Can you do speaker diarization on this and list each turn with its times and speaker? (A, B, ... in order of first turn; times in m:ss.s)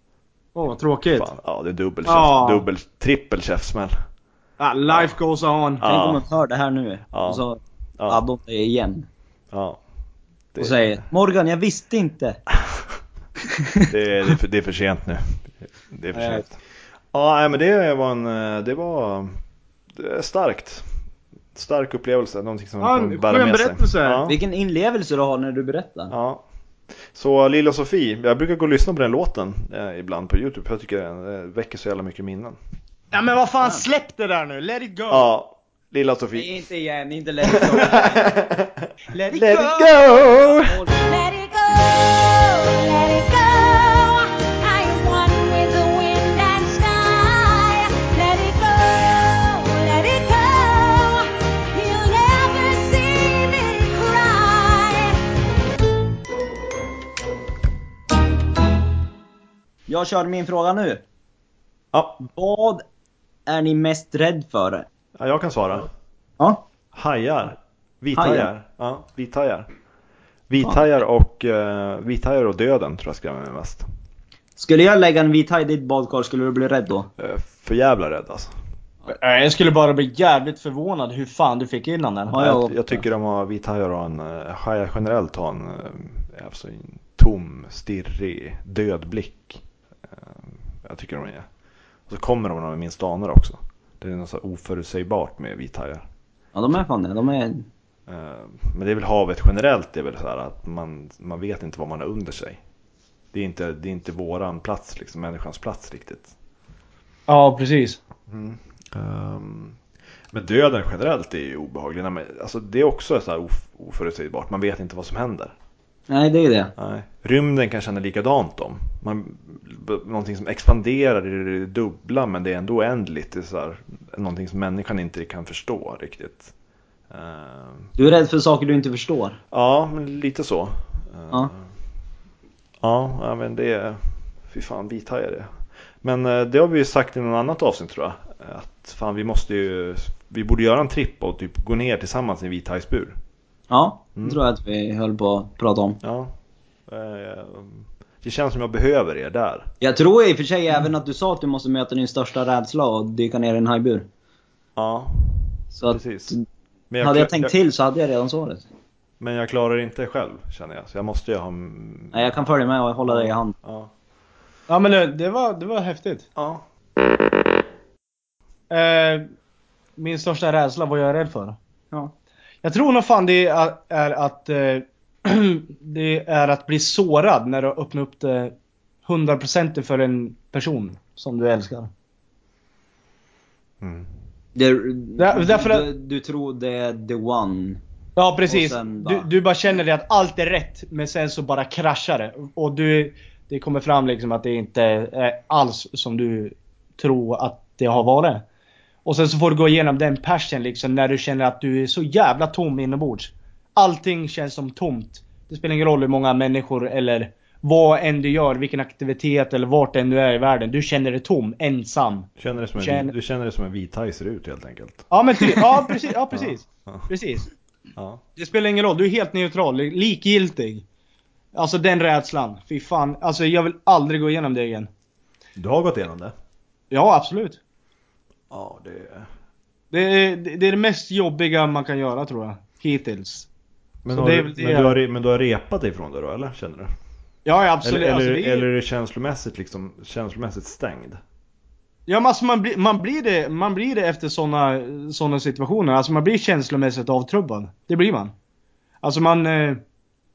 0:00.5-0:01.3 A
0:01.1-0:03.9 B
0:02.0-0:02.6 A
0:04.6-0:05.8 A
0:04.9-0:05.2 B
0:05.8-0:06.2 B
0:05.8-0:09.1 C
0:07.1-0:07.4 B
0:09.5-0:09.8 B
0:10.5-0:11.0 B
0:10.6-0:12.4 C
0:13.9-0:16.6 B
0:16.1-0:16.4 C
0:17.1-0:19.3 B
0:19.9-0:20.9 B
0:21.5-0:24.4 B
0:22.8-0:24.2 A
0:24.3-0:26.1 C
0:26.1-0:26.4 B
0:27.1-0:32.6 B
0:33.1-0:35.3 A
0:35.1-0:36.6 B
0:36.3-0:38.3 C
0:37.5-0:40.8 B
0:39.1-0:40.0 A
0:40.4-0:40.9 C
0:41.0-0:55.2 D
0:59.9-1:01.0 C
1:01.9-1:02.2 B
1:02.2-1:02.8 C
1:03.5-1:04.9 C
1:05.2-1:05.9 B
1:06.4-1:06.6 C
1:06.9-1:09.7 B
1:08.1-1:08.5 C
1:10.5-1:13.8 B
1:14.6-1:17.1 C
1:17.2-1:18.5 B
1:19.1-1:22.3 A
1:22.3-1:23.0 C
1:22.3-1:31.5 B
1:32.1-1:36.0 B
1:36.5-1:37.7 C
1:38.1-1:42.6 B
1:43.3-1:46.3 B
1:47.3-1:48.0 A
1:48.3-1:49.8 B
1:50.3-1:55.5 B
1:56.1-1:56.7 C
1:56.8-2:06.5 B
2:07.1-2:07.9 B
2:08.0-2:09.4 C
2:09.5-2:11.6 B
2:12.8-2:23.2 B
2:23.7-2:26.0 C
2:26.0-2:26.3 B
2:26.9-2:29.7 B
2:29.8-2:34.1 C
2:34.8-2:36.3 B
2:35.7-2:36.4 C
2:36.9-2:37.5 B
2:37.0-2:38.7 C
2:39.2-2:42.5 B
2:42.1-2:43.5 C
2:43.0-2:43.9 B
2:44.7-2:46.2 A
2:46.4-2:46.6 B
2:48.7-2:49.3 A
2:50.0-2:51.6 A
2:52.6-2:58.5 A
2:59.0-3:01.9 A
3:03.8-3:04.1 B
3:04.5-3:07.8 C
3:05.2-3:05.9 A
3:08.2-3:18.4 A
3:08.5-3:09.3 C
3:19.0-3:33.1 A
3:32.4-3:35.6 B
3:35.1-3:37.5 A
3:36.3-3:37.1 B
3:38.0-3:38.2 B
3:38.4-3:40.8 A
3:41.5-3:44.9 A
3:45.6-3:46.3 B
3:46.9-3:47.6 A
3:48.5-3:49.3 B
3:49.9-3:53.5 A
3:54.0-3:56.9 B
3:54.1-3:55.0 A
3:57.4-3:58.6 A
3:57.8-4:01.2 B
4:02.1-4:08.3 A
4:09.0-4:09.8 A